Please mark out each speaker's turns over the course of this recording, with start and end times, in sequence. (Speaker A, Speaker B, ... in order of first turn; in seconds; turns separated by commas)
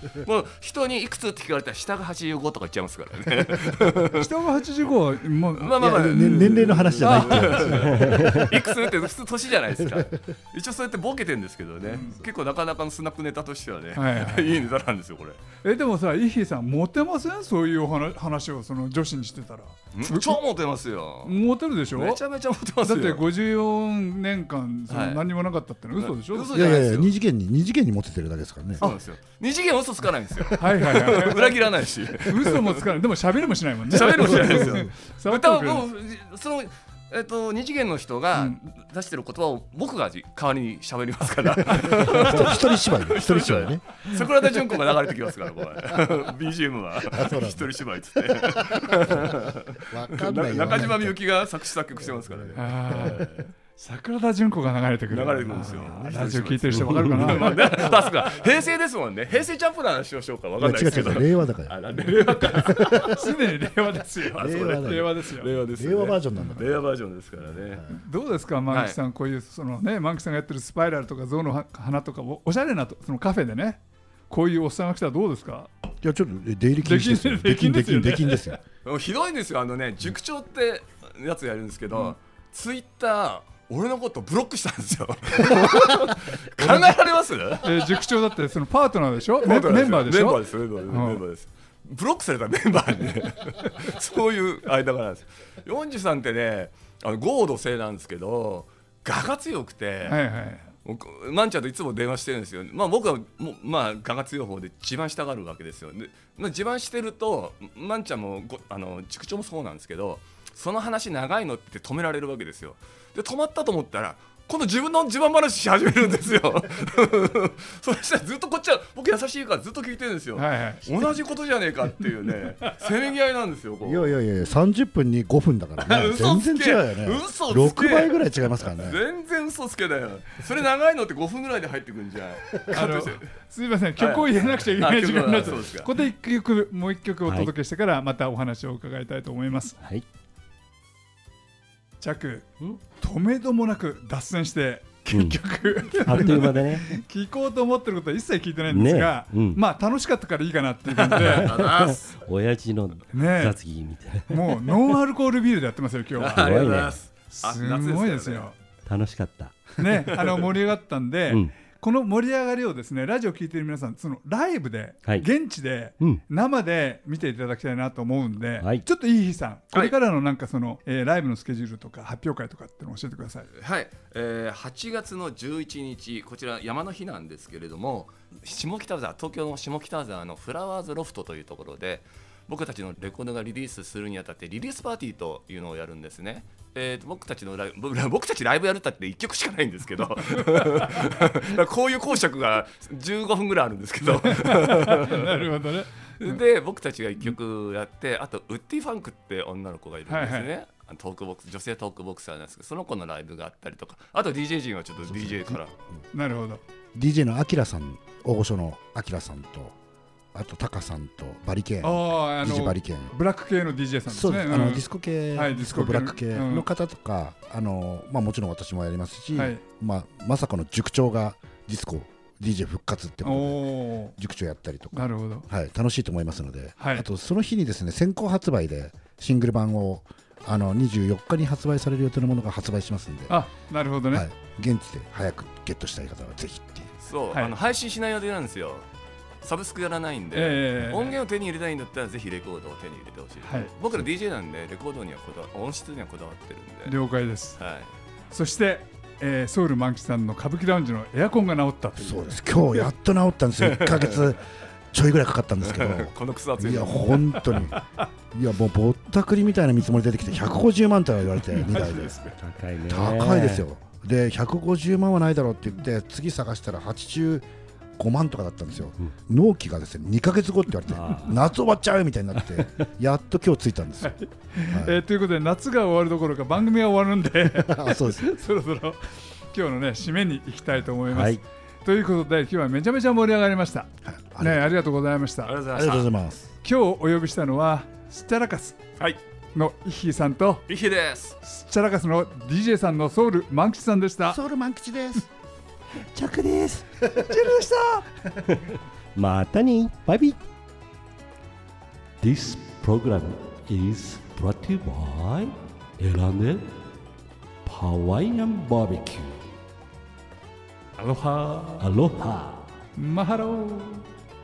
Speaker A: 0.2-4.3, Speaker B: 4.1-6.3, Speaker A: 5.5-15.4, Speaker C: 5.8-8.7, Speaker B: 7.0-7.9, Speaker D: 8.0-8.4, Speaker C: 9.8-10.1, Speaker B: 11.9-12.2, Speaker B: 13.9-14.7, Speaker B: 15.6-20.4, Speaker A: 19.9-21.4, Speaker B: 21.2-22.2, Speaker A: 21.9-23.3, Speaker B: 22.8-26.5, Speaker A: 24.9-25.2, Speaker A: 26.0-27.1, Speaker C: 26.5-28.9, Speaker A: 28.8-32.9, Speaker B: 30.6-31.6, Speaker B: 32.2-35.8, Speaker A: 33.9-53.5, Speaker C: 34.4-34.8, Speaker C: 41.7-44.0, Speaker B: 42.0-42.5, Speaker C: 47.1-51.5, Speaker C: 52.1-53.3, Speaker B: 52.5-57.6, Speaker A: 55.1-63.2, Speaker C: 55.7-58.4, Speaker C: 60.6-63.3, Speaker B: 63.1-65.5, Speaker A: 64.3-67.9, Speaker C: 64.4-66.8, Speaker C: 67.5-67.9, Speaker B: 67.9-75.7, Speaker A: 68.7-69.0, Speaker C: 76.0-78.6, Speaker B: 76.8-78.5, Speaker A: 78.8-87.8, Speaker C: 86.6-86.9, Speaker B: 87.6-91.2, Speaker A: 89.4-100.2, Speaker B: 100.0-100.7, Speaker A: 100.8-124.2, Speaker B: 120.3-120.9, Speaker C: 123.8-129.0, Speaker A: 125.8-133.2, Speaker B: 132.7-139.8, Speaker A: 134.0-135.9, Speaker D: 137.2-137.5, Speaker B: 142.0-151.6, Speaker D: 145.1-145.4, Speaker D: 145.9-146.9, Speaker D: 148.7-149.6, Speaker D: 151.0-154.7, Speaker A: 151.2-152.2, Speaker B: 153.1-153.6, Speaker B: 154.3-156.6, Speaker A: 156.2-158.5, Speaker D: 156.3-157.0, Speaker B: 157.3-158.5, Speaker D: 158.8-159.7, Speaker B: 159.8-173.5, Speaker D: 168.6-168.8, Speaker A: 173.5-195.5, Speaker B: 194.1-196.4, Speaker A: 196.2-205.7, Speaker B: 200.1-200.5, Speaker C: 205.1-205.6, Speaker B: 206.1-206.6, Speaker C: 206.9-209.8, Speaker C: 210.3-213.1, Speaker B: 211.8-216.7, Speaker C: 214.1-233.4, Speaker B: 219.3-219.6, Speaker B: 223.2-224.1, Speaker B: 224.9-225.5, Speaker B: 226.8-227.1, Speaker B: 233.3-234.3, Speaker C: 234.1-236.9, Speaker A: 237.0-238.8, Speaker A: 239.4-246.9, Speaker B: 240.3-241.2, Speaker B: 243.4-243.7, Speaker B: 246.8-247.6, Speaker A: 247.6-247.9, Speaker B: 248.3-252.4, Speaker C: 252.0-257.8, Speaker A: 253.6-254.3, Speaker A: 255.6-257.7, Speaker C: 258.3-262.2, Speaker D: 262.4-263.6, Speaker C: 262.9-267.4, Speaker C: 268.0-275.0, Speaker D: 270.9-271.4, Speaker B: 274.0-285.5, Speaker C: 277.4-278.4, Speaker D: 281.1-281.4, Speaker C: 284.0-284.8, Speaker A: 285.4-286.1, Speaker C: 285.7-286.5, Speaker B: 286.6-288.8, Speaker B: 289.5-290.6, Speaker A: 290.7-291.4, Speaker B: 291.4-294.4, Speaker C: 294.3-295.3, Speaker D: 296.0-296.9, Speaker B: 297.2-298.1, Speaker D: 298.4-300.4, Speaker D: 302.2-306.8, Speaker D: 307.6-309.4, Speaker B: 311.0-311.9, Speaker D: 311.8-312.7, Speaker B: 312.9-314.0